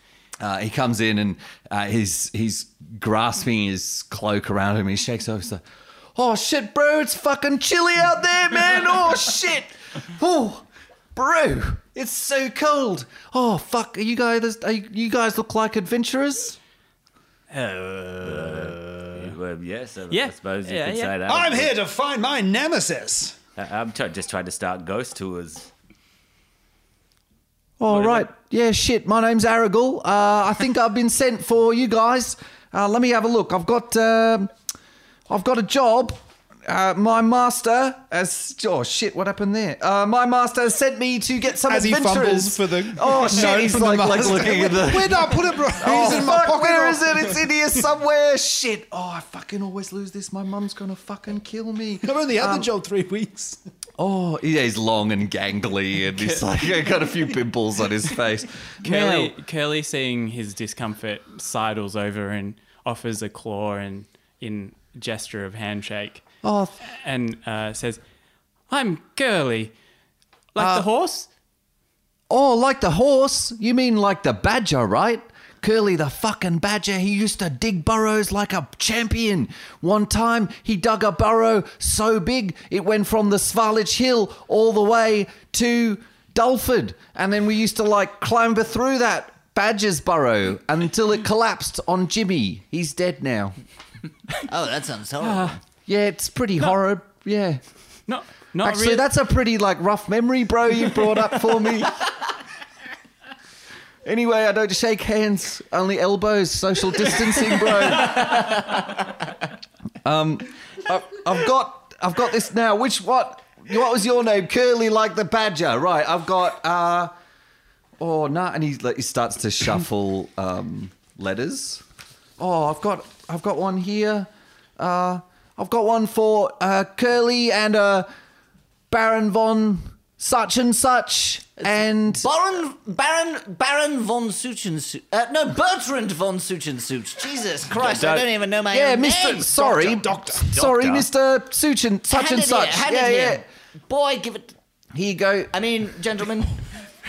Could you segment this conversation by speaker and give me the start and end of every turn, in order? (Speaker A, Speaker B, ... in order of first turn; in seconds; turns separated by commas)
Speaker A: 0.4-5.6, Speaker A: 6.1-16.6, Speaker B: 17.5-19.3, Speaker C: 18.2-21.7, Speaker B: 20.1-21.1, Speaker D: 21.2-23.4, Speaker C: 23.6-25.7, Speaker A: 27.8-34.5, Speaker C: 27.9-28.2, Speaker A: 35.3-52.7, Speaker D: 41.6-47.5, Speaker D: 52.0-53.6, Speaker A: 54.0-59.3, Speaker B: 58.8-66.2, Speaker A: 66.4-66.8, Speaker B: 66.8-68.0, Speaker B: 68.7-69.7, Speaker B: 70.5-71.3, Speaker A: 70.6-70.9, Speaker A: 72.3-93.5, Speaker E: 94.5-95.6, Speaker B: 95.2-95.5, Speaker A: 95.8-97.6, Speaker B: 98.1-99.1, Speaker A: 98.6-102.1, Speaker A: 104.0-108.7, Speaker A: 110.0-117.1, Speaker A: 118.0-121.8, Speaker A: 122.4-128.1, Speaker A: 128.9-132.3, Speaker E: 131.6-139.5, Speaker C: 137.8-138.3, Speaker A: 138.7-143.4, Speaker D: 139.4-140.6, Speaker C: 140.5-141.1, Speaker E: 142.1-144.5, Speaker A: 144.9-145.5, Speaker E: 145.5-146.6